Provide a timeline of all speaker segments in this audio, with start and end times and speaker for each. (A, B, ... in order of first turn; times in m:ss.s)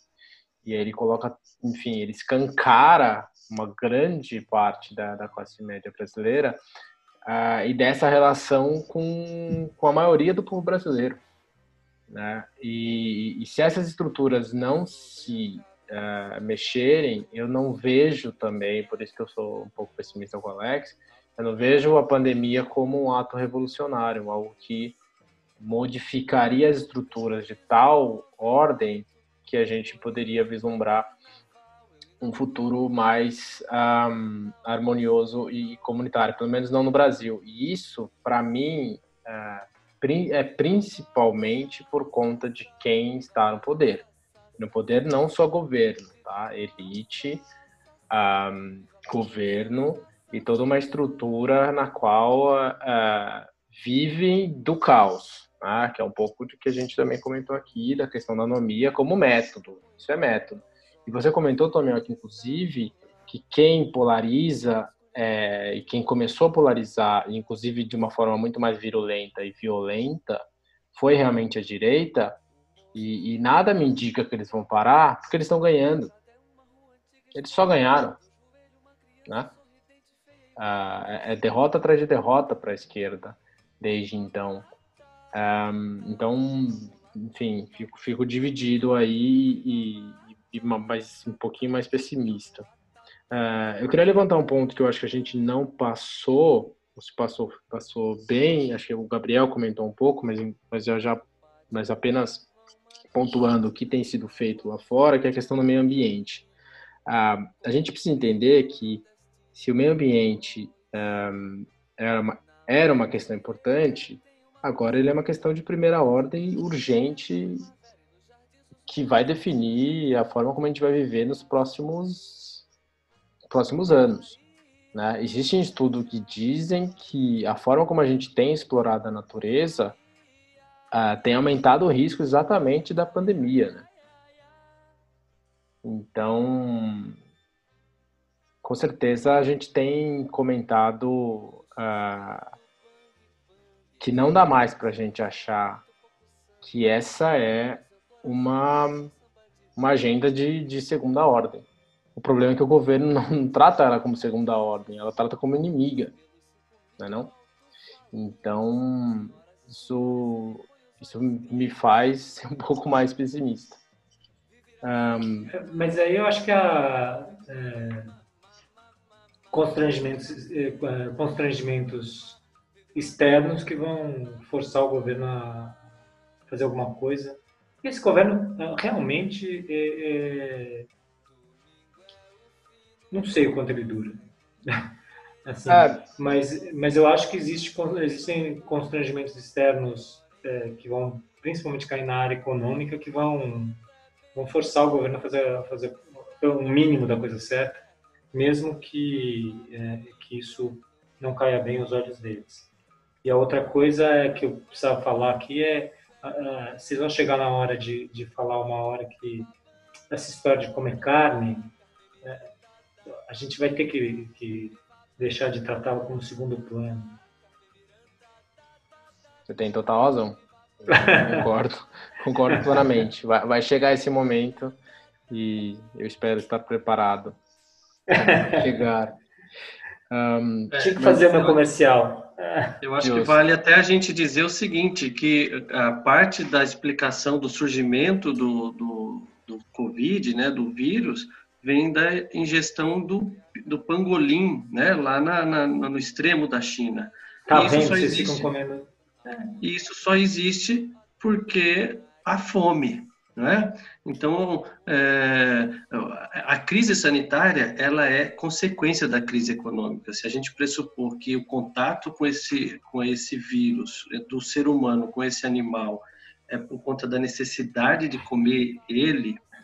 0:00.6-0:06.6 A
0:07.2-0:11.2 A
0:12.1-0:25.0 A
0:25.6-0:31.1 A
0:32.2-0:47.5 A
0:48.1-1:10.4 A
1:10.9-1:12.4 A
1:12.9-1:16.1 A
1:17.3-1:18.2 A
1:19.2-1:19.6 A
1:20.6-1:24.7 A
1:25.3-1:32.7 A
1:33.3-1:42.5 A
1:43.1-1:46.5 A
1:47.0-1:57.7 A
1:58.9-2:02.6 A
2:03.5-2:04.4 A
2:04.9-2:10.0 A
2:10.9-2:13.9 A
2:15.8-2:17.2 A
2:18.6-2:22.5 A
2:24.0-2:25.8 A
2:26.6-2:29.1 A
2:29.8-2:36.1 A
2:37.0-2:37.3 A
2:38.1-2:43.8 A
2:44.8-2:45.5 A
2:45.5-2:48.1 B
2:49.5-2:52.4 B
2:52.9-2:55.8 B
2:56.5-3:00.9 B
3:03.1-3:04.9 B
3:05.4-3:13.8 B
3:05.7-3:06.0 A
3:14.3-3:22.7 B
3:23.2-3:29.5 B
3:30.1-3:32.5 B
3:33.1-3:37.2 B
3:39.4-3:44.8 A
3:40.9-3:41.4 B
3:45.3-3:47.4 A
3:48.1-3:48.6 B
3:48.1-3:49.2 A
3:50.1-3:51.3 A
3:50.7-3:51.6 C
3:50.8-3:52.7 B
3:52.8-4:08.5 C
3:53.0-3:53.4 A
4:07.5-4:09.5 B
4:09.6-4:29.4 C